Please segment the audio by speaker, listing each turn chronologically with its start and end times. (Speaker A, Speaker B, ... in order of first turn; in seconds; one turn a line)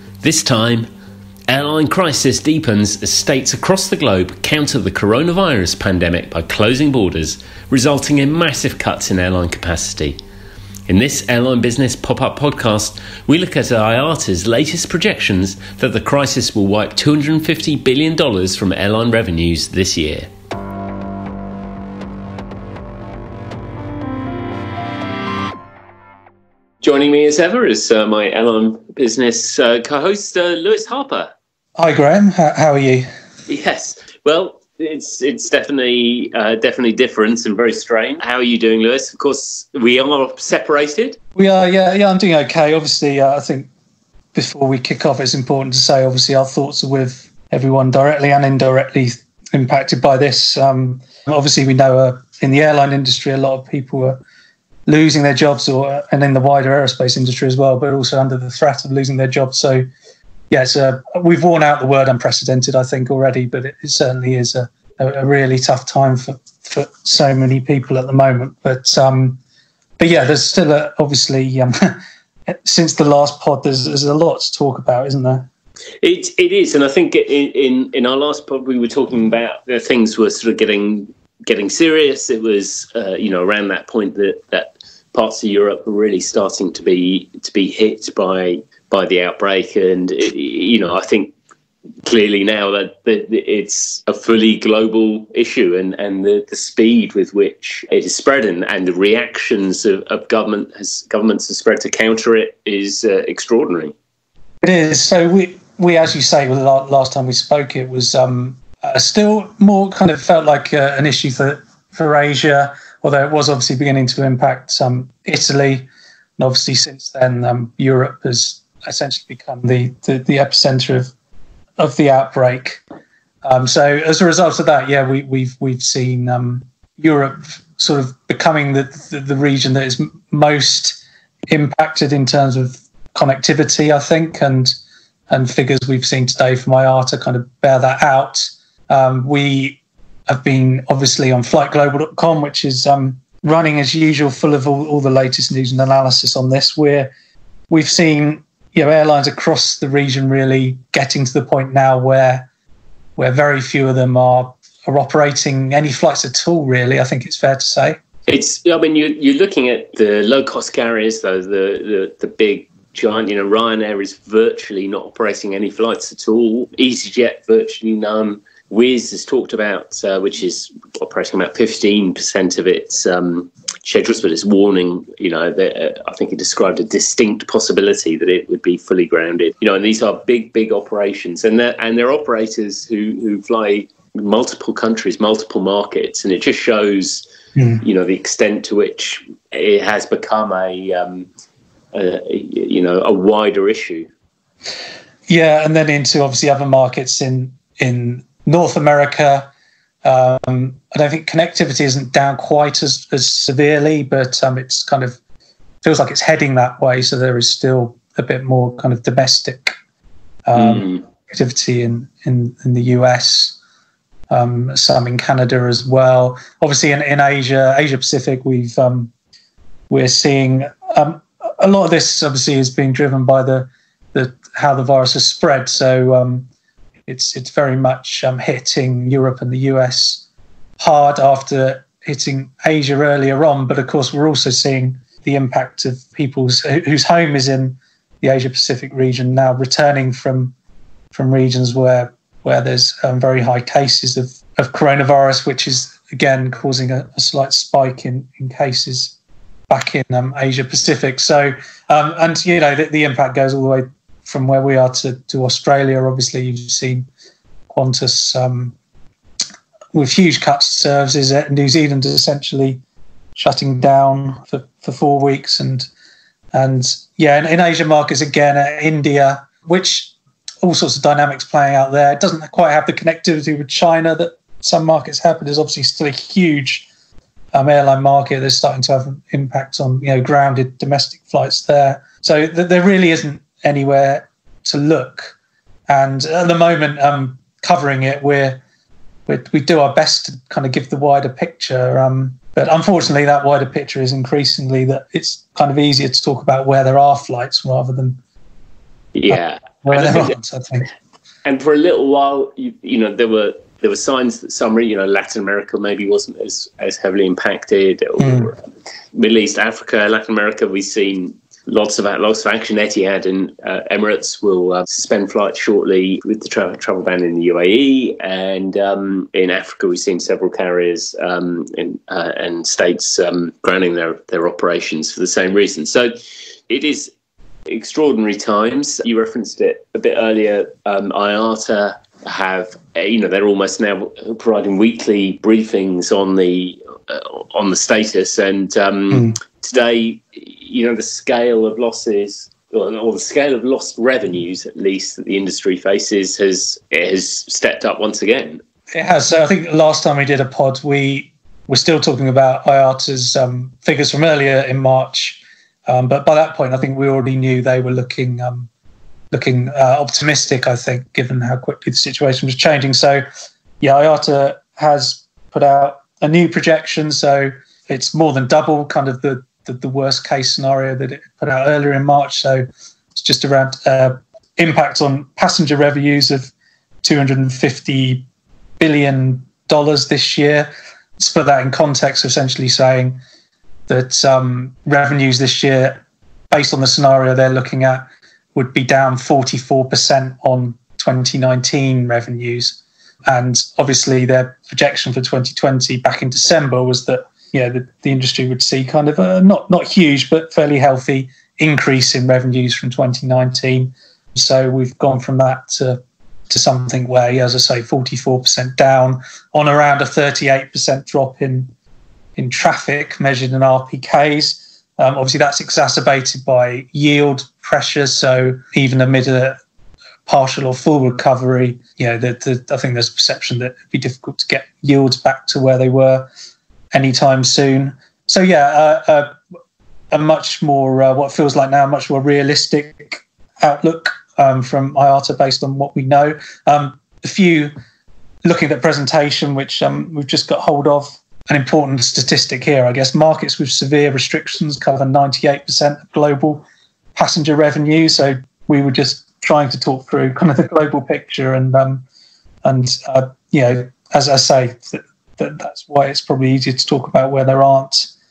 Speaker A: 0.2-0.9
Speaker A: 1.5-10.2
Speaker A: 10.9-20.3
Speaker A: 26.8-31.3
Speaker B: 31.8-33.1
Speaker A: 33.5-41.2
Speaker B: 41.4-43.7
Speaker B: 44.3-54.2
Speaker B: 54.9-59.9
Speaker B: 60.5-69.4
Speaker B: 70.0-75.5
Speaker A: 76.0-91.3
Speaker A: 92.0-103.9
Speaker B: 104.6-115.9
Speaker B: 116.4-121.1
Speaker B: 121.8-122.8
Speaker B: 123.4-134.7
Speaker B: 135.3-147.1
Speaker B: 147.7-152.5
Speaker B: 153.2-158.0
Speaker A: 158.3-187.2
Speaker B: 187.6-187.8
Speaker A: 187.8-191.3
Speaker A: 191.9-194.1
Speaker B: 195.3-199.5
Speaker B: 200.0-205.2
Speaker B: 205.8-209.8
Speaker B: 210.4-213.6
Speaker A: 210.6-211.0
Speaker B: 214.3-219.1
Speaker B: 219.9-226.5
Speaker B: 227.1-230.2
Speaker B: 230.8-240.5
Speaker B: 241.1-249.1
Speaker B: 249.7-257.1
Speaker B: 257.7-258.8
Speaker B: 259.9-262.8
Speaker B: 263.4-265.9
Speaker B: 266.5-276.9
Speaker B: 277.5-285.4
Speaker B: 285.9-288.6
Speaker B: 289.3-298.2
Speaker A: 299.1-300.3
Speaker B: 299.3-300.9
Speaker A: 301.4-326.2
Speaker B: 308.2-308.5
Speaker A: 326.7-327.1
Speaker A: 327.7-348.6
Speaker B: 348.9-358.7
Speaker B: 359.3-363.2
Speaker B: 363.8-376.5
Speaker B: 377.0-378.2
Speaker B: 378.8-383.2
Speaker B: 383.9-411.7
Speaker B: 412.4-419.6
Speaker B: 420.2-426.3
Speaker B: 426.9-429.4
Speaker B: 430.1-437.7
Speaker B: 438.4-452.0
Speaker B: 452.6-458.1